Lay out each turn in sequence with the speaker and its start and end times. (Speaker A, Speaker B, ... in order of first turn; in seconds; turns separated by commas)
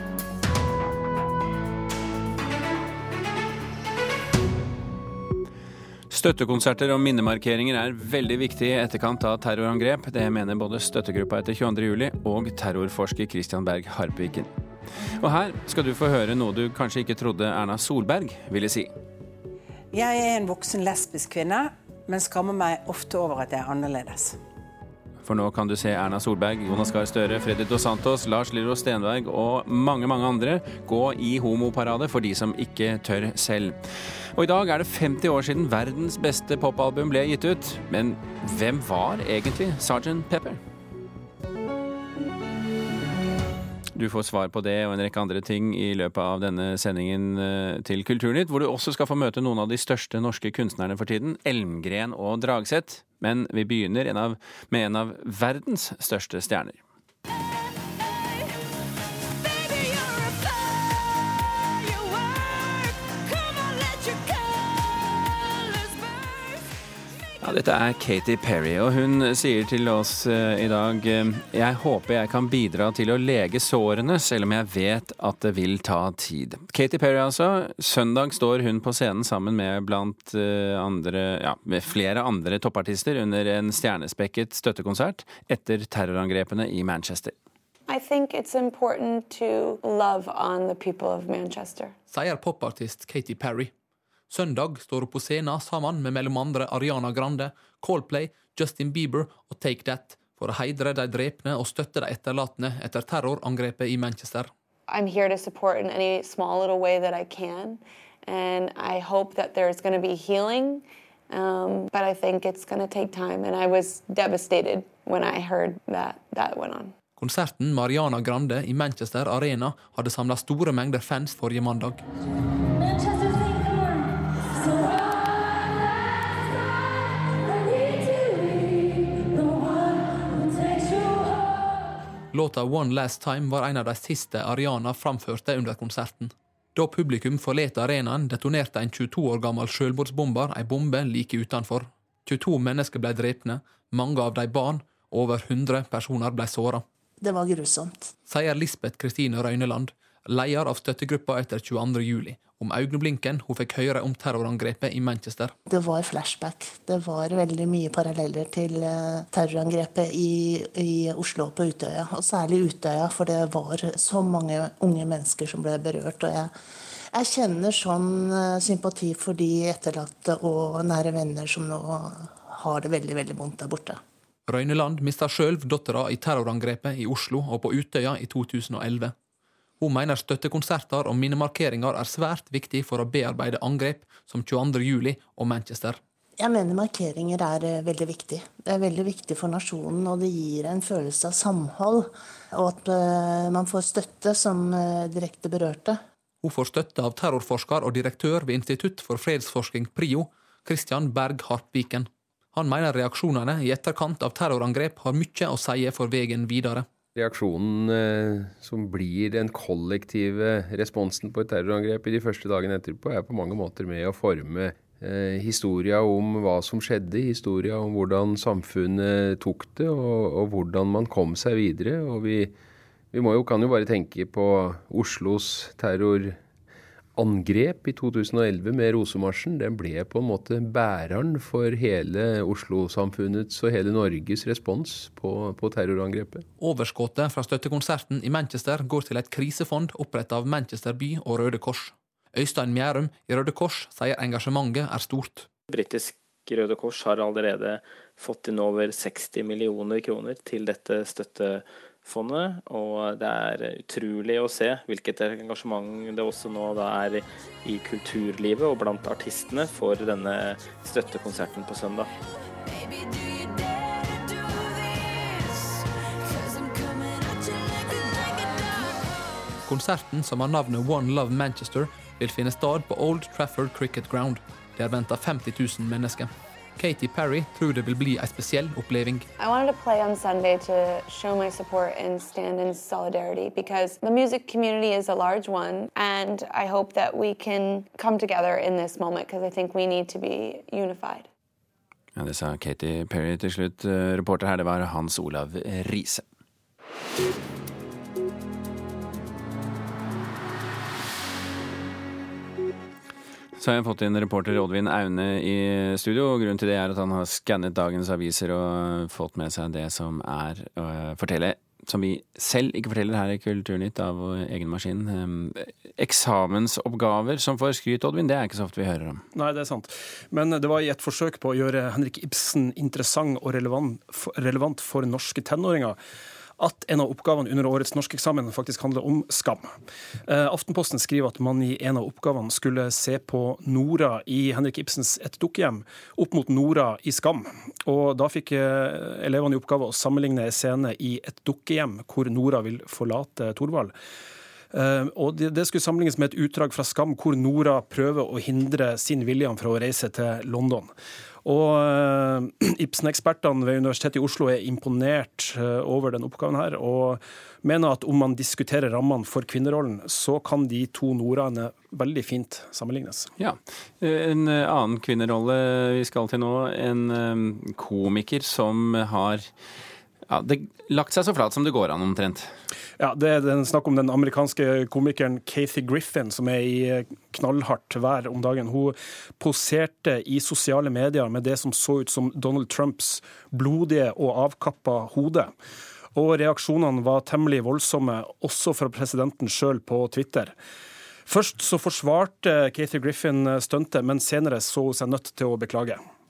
Speaker A: 6.1-14.5, Speaker A: 15.2-18.9, Speaker B: 19.9-24.4, Speaker A: 25.2-33.8, Speaker A: 34.4-40.6, Speaker A: 43.9-56.8, Speaker A: 67.4-87.3, Speaker C: 87.9-92.0, Speaker D: 92.1-93.7, Speaker D: 94.3-104.5, Speaker C: 104.9-116.9, Speaker D: 117.2-122.0, Speaker D: 132.3-146.8, Speaker E: 147.2-148.1, Speaker D: 148.3-155.5, Speaker E: 155.7-166.5, Speaker E: 167.1-174.0, Speaker D: 174.5-179.1, Speaker D: 179.8-186.0, Speaker E: 186.4-196.0, Speaker D: 196.4-206.9, Speaker F: 207.2-222.5, Speaker F: 223.1-226.4, Speaker F: 227.2-236.5, Speaker D: 236.6-245.5, Speaker G: 245.7-251.5, Speaker G: 252.1-257.2, Speaker G: 257.7-262.0, Speaker D: 269.7-279.3, Speaker C: 279.4-291.3, Speaker A: 292.2-296.2, Speaker A: 303.6-319.2, Speaker H: 319.3-326.0, Speaker H: 326.6-329.7, Speaker H: 330.3-343.9, Speaker H: 344.7-350.9, Speaker H: 351.4-363.3, Speaker A: 363.4-369.5, Speaker A: 370.3-372.5, Speaker H: 373.0-385.5, Speaker H: 386.1-390.5, Speaker H: 391.3-396.0